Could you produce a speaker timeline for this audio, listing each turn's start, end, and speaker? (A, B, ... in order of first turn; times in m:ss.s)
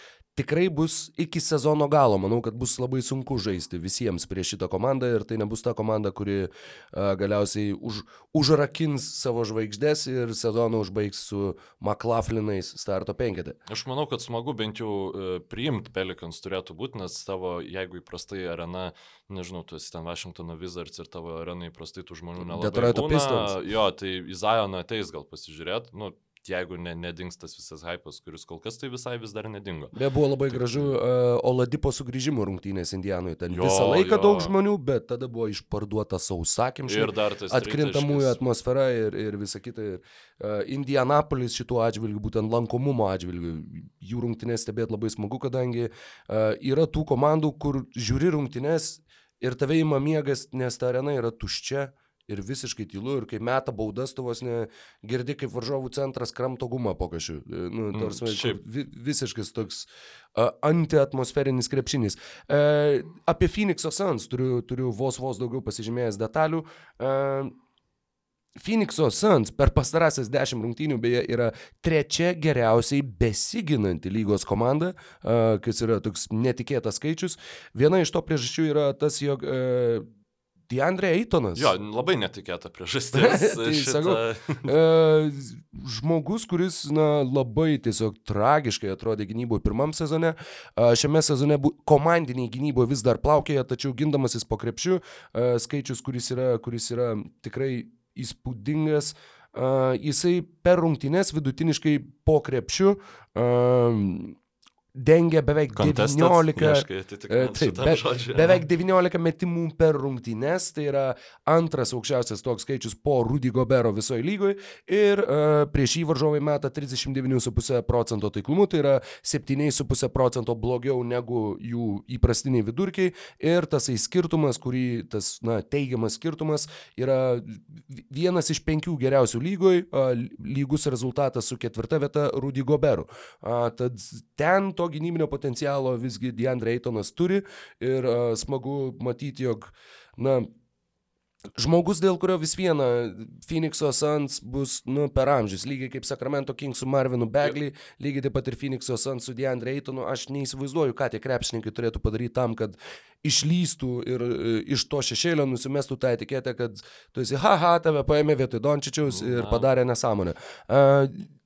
0:00.4-0:13.6 A
0:13.7-0:29.9 B
0:22.4-0:23.6 A
0:29.9-1:07.5 A
0:30.5-0:30.9 B
0:33.5-0:34.5 B
0:36.9-0:38.4 B
0:57.9-0:58.6 B
1:08.6-1:20.0 A
1:20.7-1:21.7 A
1:21.5-1:24.7 B
1:23.1-1:44.4 A
1:45.0-2:20.5 A
1:45.7-1:48.6 B
2:21.6-2:41.3 A
2:39.1-2:39.7 B